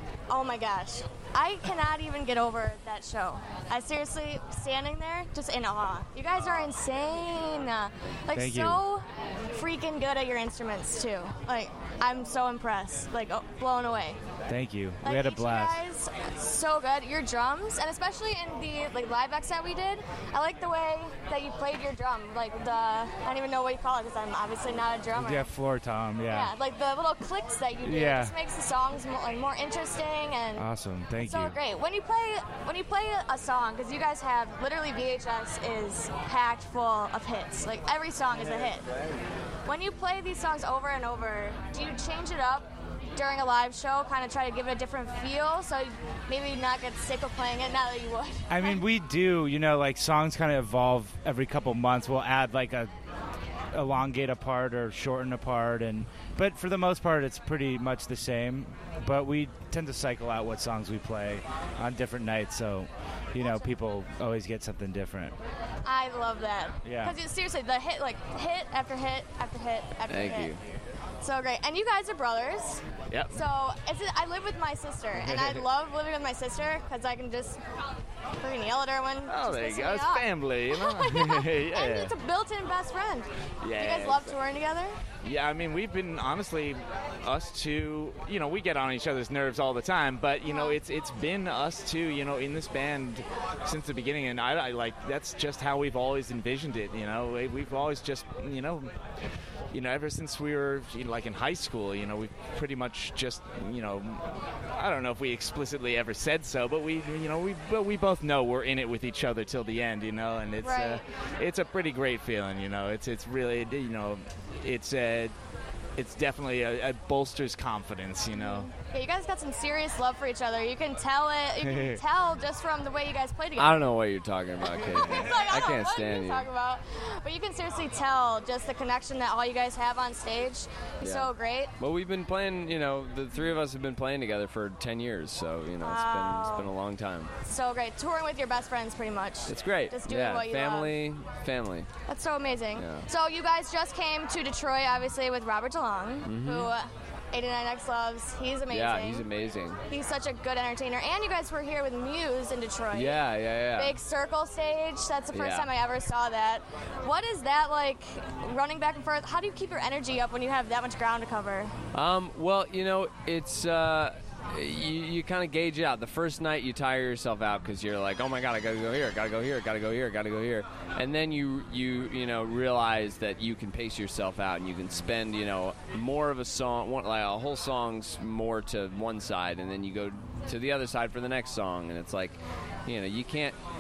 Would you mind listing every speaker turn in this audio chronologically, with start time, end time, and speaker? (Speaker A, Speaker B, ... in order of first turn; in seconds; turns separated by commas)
Speaker A: 0.3-14.2, Speaker B: 8.3-8.8, Speaker B: 14.5-15.8, Speaker A: 15.0-25.5, Speaker B: 25.2-26.5, Speaker A: 26.3-30.7, Speaker B: 27.8-28.3, Speaker B: 30.6-31.6, Speaker A: 31.2-38.9, Speaker A: 39.6-48.8, Speaker B: 48.5-52.9, Speaker B: 53.7-65.3, Speaker A: 63.4-63.7, Speaker A: 65.8-70.6, Speaker B: 66.8-67.2, Speaker C: 70.1-70.6, Speaker A: 71.2-77.6, Speaker C: 75.2-75.6, Speaker A: 78.3-85.0, Speaker D: 79.3-82.1, Speaker D: 83.6-84.3, Speaker D: 85.2-98.9, Speaker A: 90.5-90.8, Speaker D: 99.7-115.3, Speaker A: 110.6-111.0, Speaker D: 116.0-118.7, Speaker A: 118.3-123.8, Speaker B: 121.7-122.0, Speaker C: 123.6-126.5, Speaker A: 124.9-131.7, Speaker C: 131.0-137.3, Speaker A: 135.8-136.7, Speaker A: 137.4-141.0, Speaker C: 139.5-141.9, Speaker A: 142.1-149.2, Speaker C: 142.8-143.1, Speaker C: 146.2-146.7, Speaker C: 148.7-149.8, Speaker A: 149.9-161.8, Speaker C: 152.9-154.0, Speaker C: 155.3-155.7, Speaker C: 161.9-183.6